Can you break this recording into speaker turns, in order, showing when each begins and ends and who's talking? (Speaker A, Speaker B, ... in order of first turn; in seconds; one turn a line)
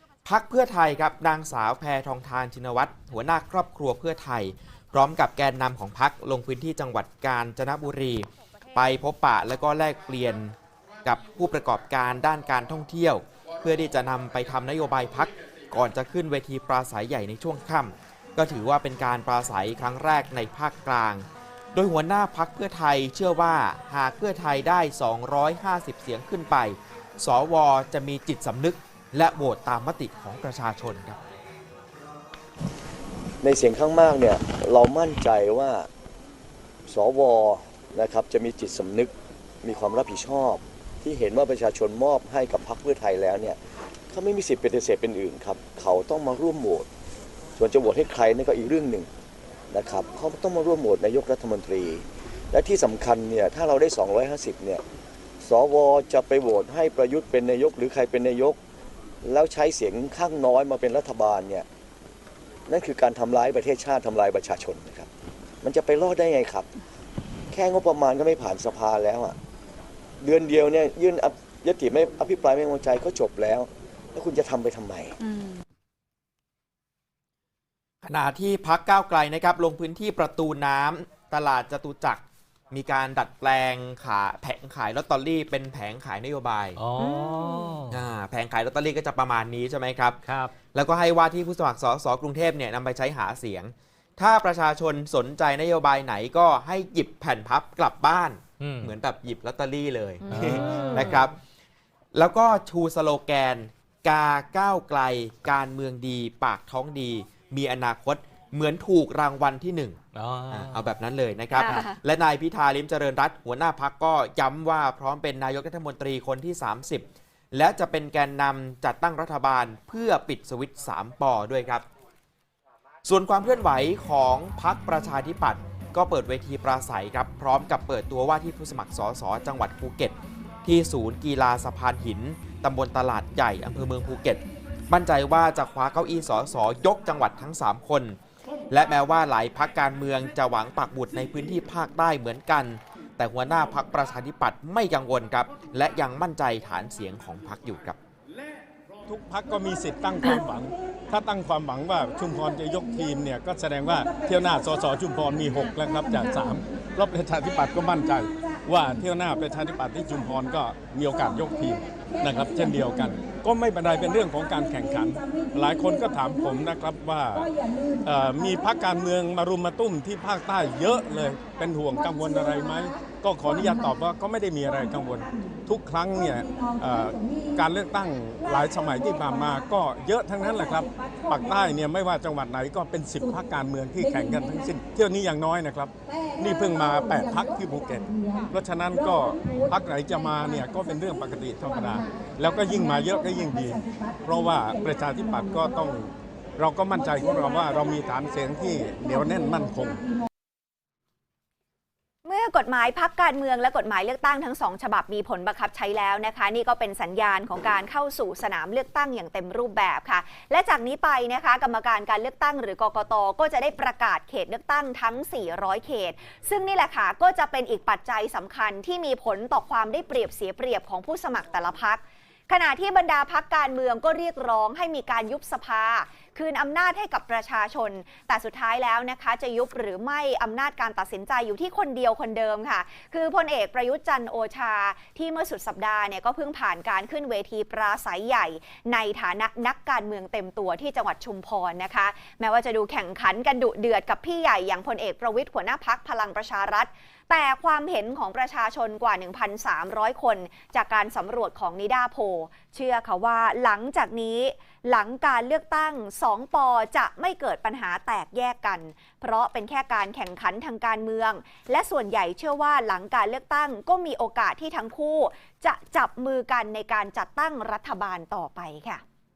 Speaker A: 0.2-31.2
Speaker B: 33.4-35.9
Speaker B: 36.9-39.1
Speaker B: 39.6-43.6
Speaker B: 44.1-46.9
Speaker B: 47.6-49.1
Speaker B: 49.7-52.0
Speaker B: 52.5-54.8
Speaker B: 55.5-58.6
Speaker B: 59.2-61.6
Speaker B: 62.7-65.1
Speaker B: 65.6-66.7
Speaker B: 67.5-69.3
Speaker B: 70.2-75.2
Speaker A: 78.0-86.8
Speaker C: 86.8-88.0
Speaker D: 87.0-87.8
Speaker A: 87.9-90.2
Speaker C: 90.2-90.5
Speaker A: 90.7-101.4
Speaker C: 98.6-99.0
Speaker D: 100.2-101.3
Speaker C: 100.3-101.2
Speaker A: 102.1-110.0
Speaker C: 110.1-110.8
Speaker A: 110.5-121.8
Speaker D: 111.5-112.0
Speaker A: 123.0-138.2
Speaker A: 138.7-148.0
Speaker E: 149.1-167.5
Speaker E: 168.1-200.1
Speaker D: 202.2-269.0